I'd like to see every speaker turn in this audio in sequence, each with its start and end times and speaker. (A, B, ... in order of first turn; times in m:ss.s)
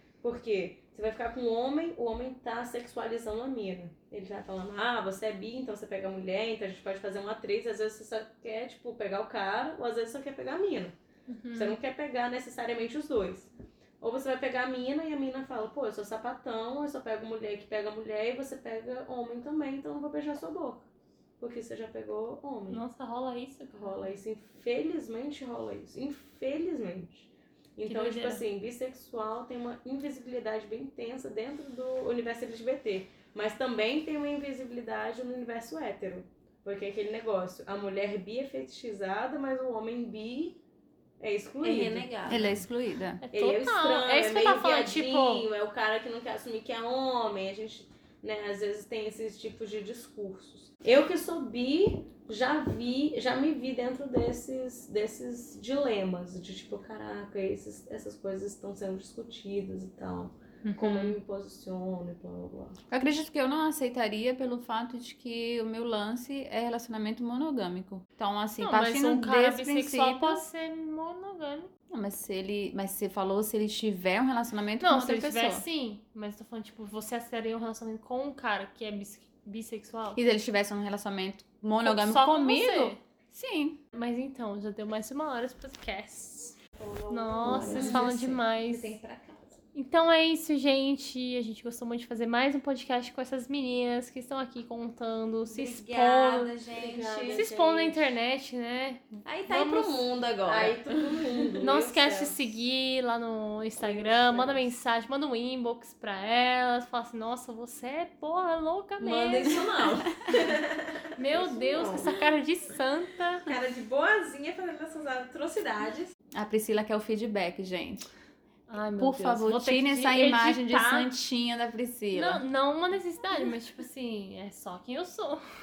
0:00.2-0:11.0 A
0:11.3-0:11.8 B
0:11.5-0:13.5 A
0:14.0-0:20.9 A
0:21.4-0:22.8 A
0:22.7-0:24.2 B
0:23.7-0:40.6 A
0:27.9-0:28.4 B
0:41.2-0:42.1 A
0:41.6-0:42.6 C
0:42.3-0:43.2 D
0:43.2-0:45.5 B
0:43.3-1:02.8 A
1:00.6-1:01.2 B
1:02.9-1:10.4 D
1:08.6-1:11.7 B
1:11.9-1:15.6 D
1:14.8-1:20.2 B
1:20.2-1:23.8 D
1:21.8-1:23.0 B
1:23.9-1:29.0 B
1:26.8-1:29.6 C
1:27.4-1:28.1 A
1:27.6-1:28.1 D
1:29.7-1:36.5 B
1:35.5-1:37.4 C
1:36.7-1:38.1 A
1:37.3-1:40.1 B
1:39.2-1:41.6 C
1:40.4-1:42.5 A
1:41.6-1:49.6 B
1:43.8-1:44.7 A
1:49.0-1:51.0 C
1:51.2-1:53.5 B
1:51.4-1:52.1 A
1:51.6-1:52.1 C
1:53.5-1:56.1 C
1:56.4-1:58.1 D
1:58.7-2:01.1 B
1:59.0-2:02.4 D
2:02.1-2:05.4 B